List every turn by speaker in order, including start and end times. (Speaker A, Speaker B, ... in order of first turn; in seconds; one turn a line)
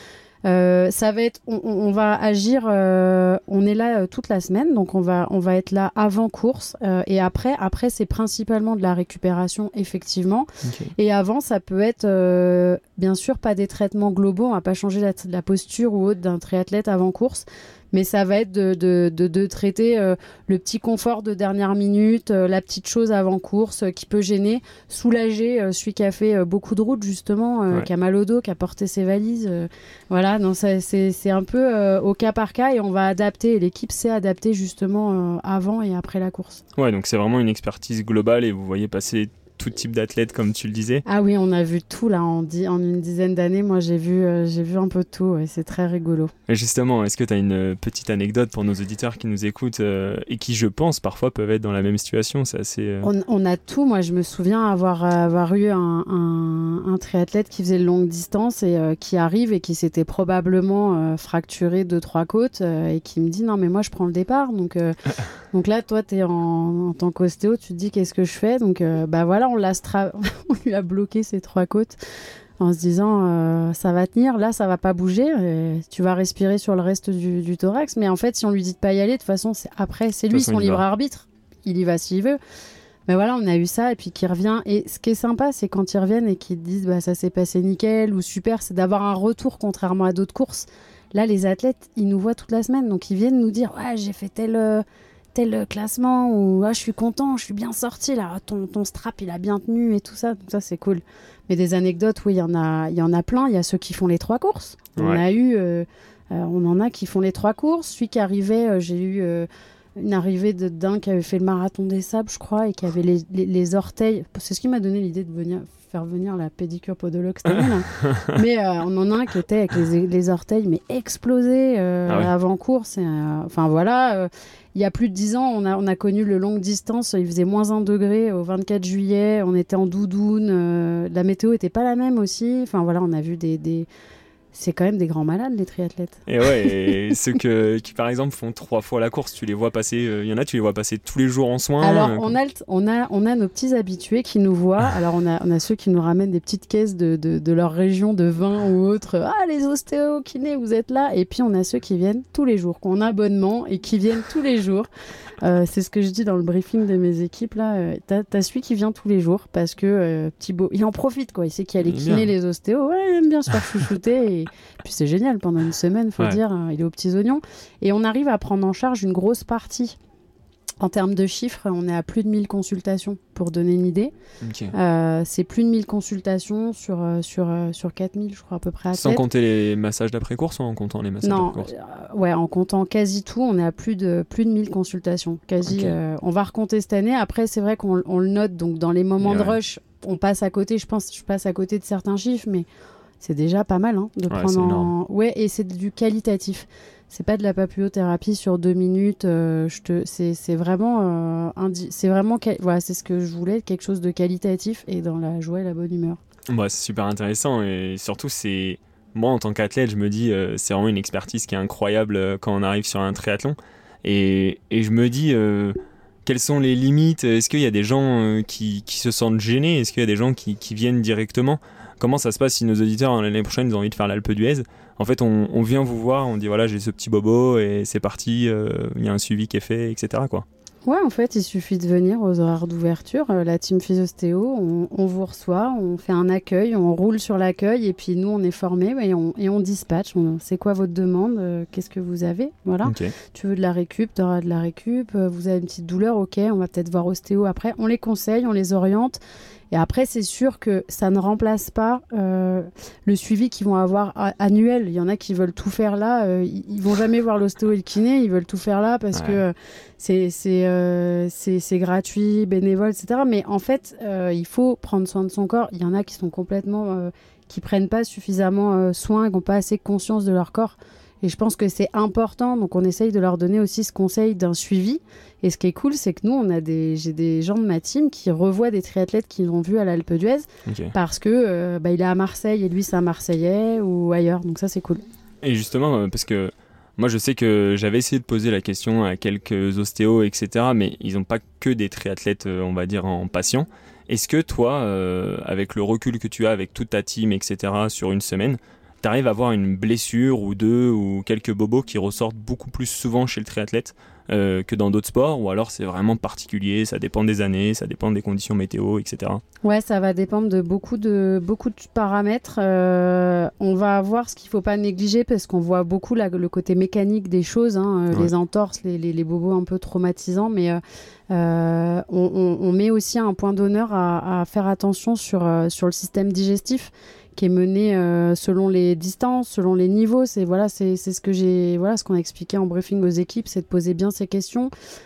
Speaker A: 0.5-36.6
Speaker B: 10.6-10.9
Speaker B: 36.8-41.0
Speaker A: 41.1-46.3
Speaker B: 46.5-53.1
Speaker A: 53.0-65.0
Speaker A: 65.5-72.0
Speaker A: 72.6-82.4
Speaker B: 80.3-80.8
Speaker A: 83.1-94.8
Speaker A: 95.3-133.9
Speaker B: 105.0-105.2
Speaker B: 117.5-118.3
Speaker B: 122.1-122.3
Speaker A: 134.5-136.8
Speaker B: 136.3-142.3
Speaker A: 141.8-154.9
Speaker A: 155.4-170.0
Speaker B: 161.8-162.3
Speaker A: 170.8-174.1
Speaker B: 174.4-174.8
Speaker A: 174.7-179.2
Speaker B: 178.9-181.7
Speaker A: 181.2-192.7
Speaker B: 185.7-186.0
Speaker B: 189.2-189.6
Speaker A: 193.2-206.2
Speaker B: 194.3-194.9
Speaker B: 206.5-230.4
Speaker A: 230.8-249.2
Speaker B: 242.8-243.1
Speaker A: 249.7-285.0
Speaker B: 259.1-259.4
Speaker B: 280.7-280.9
Speaker B: 285.4-309.4
Speaker A: 309.6-334.7